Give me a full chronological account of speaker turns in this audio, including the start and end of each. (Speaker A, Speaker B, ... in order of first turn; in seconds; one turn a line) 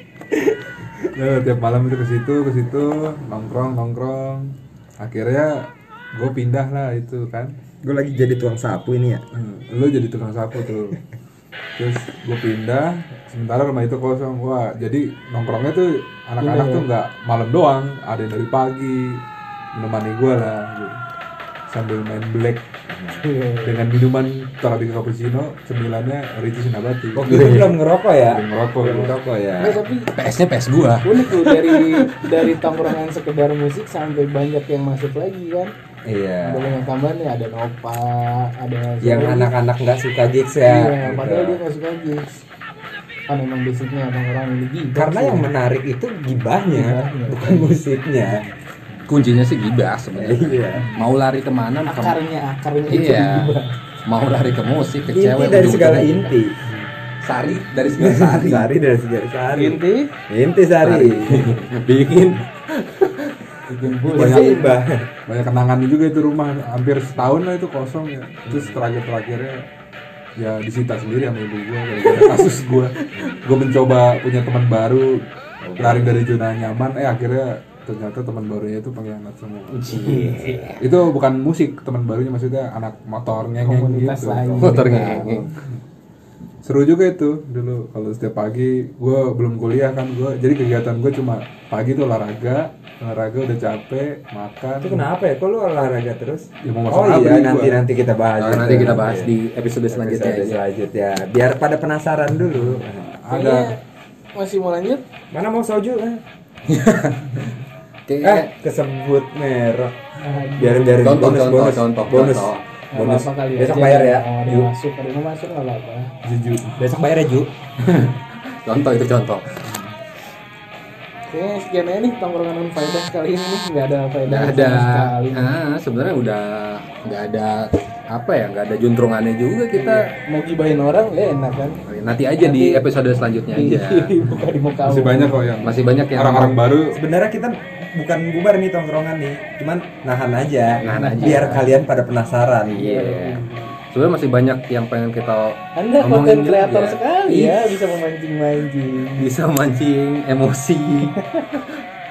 Speaker A: 1.1-7.5
Speaker B: 7.8-9.2
Speaker A: 9.3-11.0
Speaker A: 11.8-19.2
Speaker C: 16.4-16.9
Speaker A: 19.8-21.0
Speaker A: 21.7-22.7
Speaker C: 23.1-23.8
Speaker A: 23.6-27.8
Speaker B: 27.1-29.8
Speaker A: 28.3-29.2
Speaker C: 29.6-30.1
Speaker D: 30.1-32.7
Speaker C: 31.0-35.7
Speaker B: 36.0-36.8
Speaker C: 36.4-39.5
Speaker B: 39.0-41.6
Speaker C: 40.6-42.3
Speaker C: 43.3-45.5
Speaker B: 45.0-48.5
Speaker C: 46.7-47.7
Speaker D: 49.1-52.2
Speaker B: 50.2-50.9
Speaker C: 51.9-53.8
Speaker D: 52.9-53.5
Speaker D: 54.1-56.4
Speaker B: 55.1-56.6
Speaker D: 57.2-58.7
Speaker B: 58.0-61.5
Speaker C: 59.5-60.1
Speaker D: 60.8-63.4
Speaker C: 63.7-64.8
Speaker A: 63.8-69.7
Speaker B: 64.1-65.1
Speaker B: 68.5-68.8
Speaker A: 70.4-75.3
Speaker D: 72.0-73.2
Speaker B: 75.6-76.2
Speaker A: 75.8-80.0
Speaker D: 79.7-80.9
Speaker C: 79.9-80.6
Speaker A: 80.8-84.8
Speaker C: 83.6-85.4
Speaker D: 84.6-85.5
Speaker A: 86.6-95.1
Speaker B: 94.8-99.3
Speaker A: 96.6-97.8
Speaker D: 98.4-100.6
Speaker B: 99.9-103.0
Speaker A: 102.5-103.8
Speaker C: 103.3-103.8
Speaker C: 104.4-105.0
Speaker B: 105.3-106.2
Speaker D: 106.7-107.5
Speaker D: 108.1-108.5
Speaker B: 108.2-110.0
Speaker C: 110.2-111.0
Speaker B: 110.6-114.7
Speaker D: 111.0-112.6
Speaker C: 112.9-116.2
Speaker A: 116.2-116.8
Speaker B: 116.8-117.5
Speaker D: 117.8-119.7
Speaker C: 121.3-125.6
Speaker D: 124.3-130.1
Speaker C: 129.7-131.8
Speaker D: 131.9-134.2
Speaker C: 132.4-132.8
Speaker C: 133.5-135.4
Speaker A: 134.8-137.0
Speaker D: 135.6-136.7
Speaker B: 136.9-143.4
Speaker D: 140.8-141.7
Speaker C: 140.9-141.6
Speaker D: 142.8-143.2
Speaker C: 142.8-143.8
Speaker D: 143.9-147.6
Speaker C: 145.8-149.3
Speaker D: 149.2-151.2
Speaker C: 151.1-151.6